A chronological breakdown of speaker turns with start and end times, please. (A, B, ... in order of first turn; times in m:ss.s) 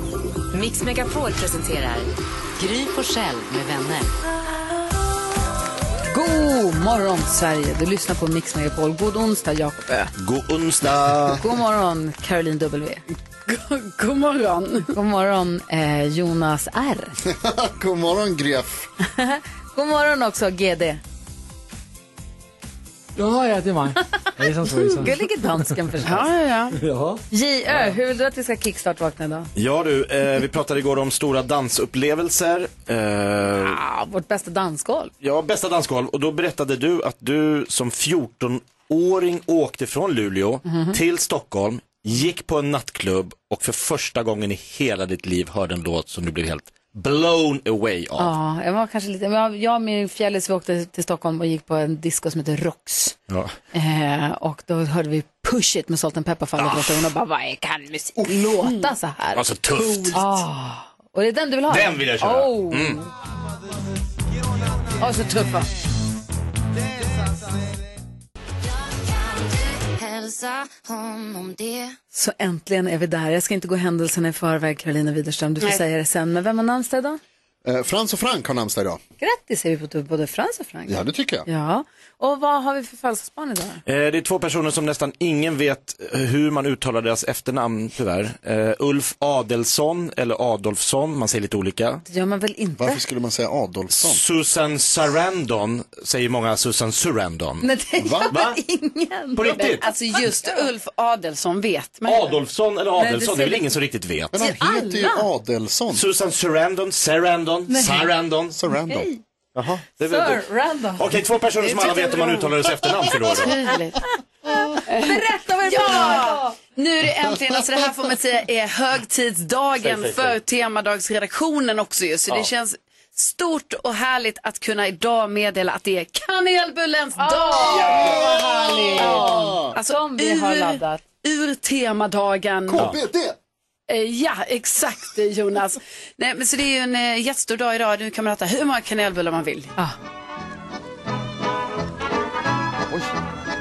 0:00.5-0:04.1 A
0:06.1-0:10.1 B
0:10.2-0:11.5 C
0:11.4-0:13.0 B
0:13.5-0:14.9 D
0:14.9-0:17.2 B
0:17.2-0:18.8 E
0:19.1-0:21.0 B
0:23.2-0:26.0 F
0:25.0-0:26.3 B
0:26.0-0:26.8 D
0:26.7-0:27.9 F
0:27.3-0:29.5 B
0:29.6-0:33.8 C
0:33.6-0:35.1 B
0:35.2-0:48.3 C
0:40.6-0:41.0 B
0:48.2-0:53.2 B
0:53.3-0:53.6 C
0:53.7-0:59.4 B
0:59.3-1:00.2 C
1:00.1-1:03.1 B
1:01.7-1:03.0 C
1:05.0-1:05.7 B
1:08.6-1:12.0 G
1:12.1-1:17.2 B
1:17.6-1:19.0 E
1:19.2-1:23.8 B
1:20.9-1:21.5 E
1:23.8-1:32.0 C
1:32.0-1:33.0 B
1:32.8-1:34.2 E
1:33.9-1:37.7 C
1:37.6-1:40.6 B
1:38.0-1:38.3 E
1:38.3-1:38.6 C
1:39.4-1:39.8 C
1:39.5-1:42.4 D
1:42.0-1:44.3 C
1:43.0-1:43.7 B
1:44.3-1:46.1 E
1:44.4-1:45.3 B
1:45.9-1:48.6 C
1:47.7-1:48.1 B
1:48.5-1:49.1 E
1:48.9-1:49.2 B
1:49.6-1:53.6 C
1:50.0-1:51.0 B
1:51.6-1:54.0 D
1:54.8-1:56.6 B
1:54.9-2:12.9 D
1:59.8-2:00.4 C
2:07.2-2:11.0 B
2:07.8-2:09.7 E
2:12.7-2:13.4 E
2:13.9-2:19.7 D